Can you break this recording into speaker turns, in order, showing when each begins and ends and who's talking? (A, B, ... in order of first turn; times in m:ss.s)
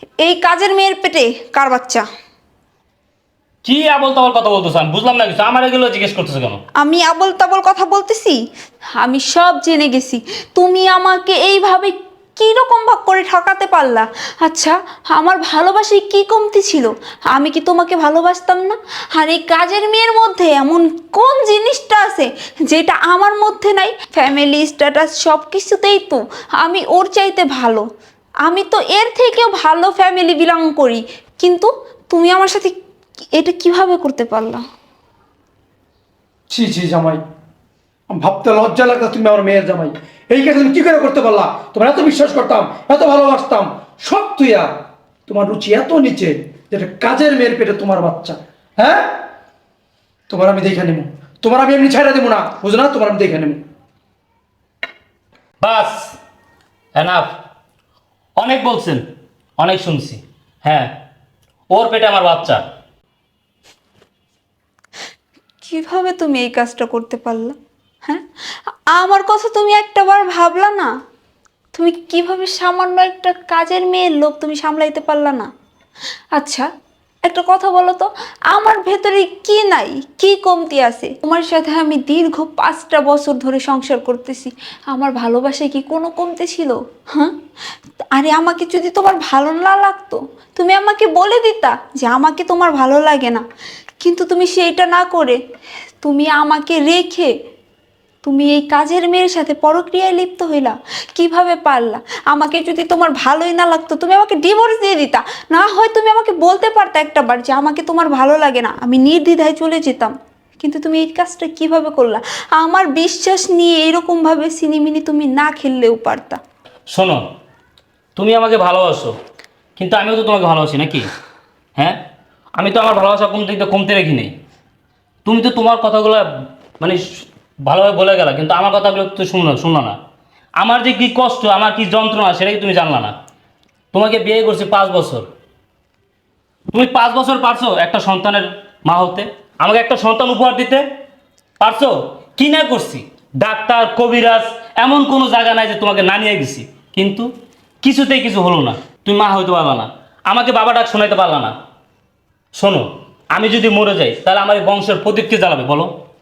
0:00.2-0:02.0 A
0:03.6-0:06.6 B
0:06.8-0:08.4 A
0:09.0-0:27.8 A
0:28.4-0:32.7 A
0:33.3-0:34.6 A
0:36.5-0:37.2 C
0:38.1-0:44.7 C
0:45.3-0:49.2 C
0:50.3-0:53.6 C
0:55.6-0:56.2 B
0:56.9-0:57.3 B
0:58.4-0:59.0 B
0:59.6-1:00.9 B
1:01.7-1:02.6 B
1:05.6-1:08.2 A
1:08.9-1:10.9 A
1:11.7-1:15.5 A
1:16.3-1:16.7 A
1:17.2-1:27.3 A
1:28.1-1:33.4 A
1:34.0-1:35.4 A
1:36.0-1:37.3 A
1:38.2-1:56.4 A
1:56.9-1:57.2 B
1:58.2-1:59.2 B
1:59.8-2:01.1 B
2:02.6-2:04.3 B
2:05.2-2:06.2 B
2:06.8-2:10.0 B
2:10.6-2:13.1 B
2:13.9-2:15.3 B
2:16.7-2:20.8 B
2:21.6-2:27.3 B
2:27.8-2:31.5 B
2:32.6-2:35.9 B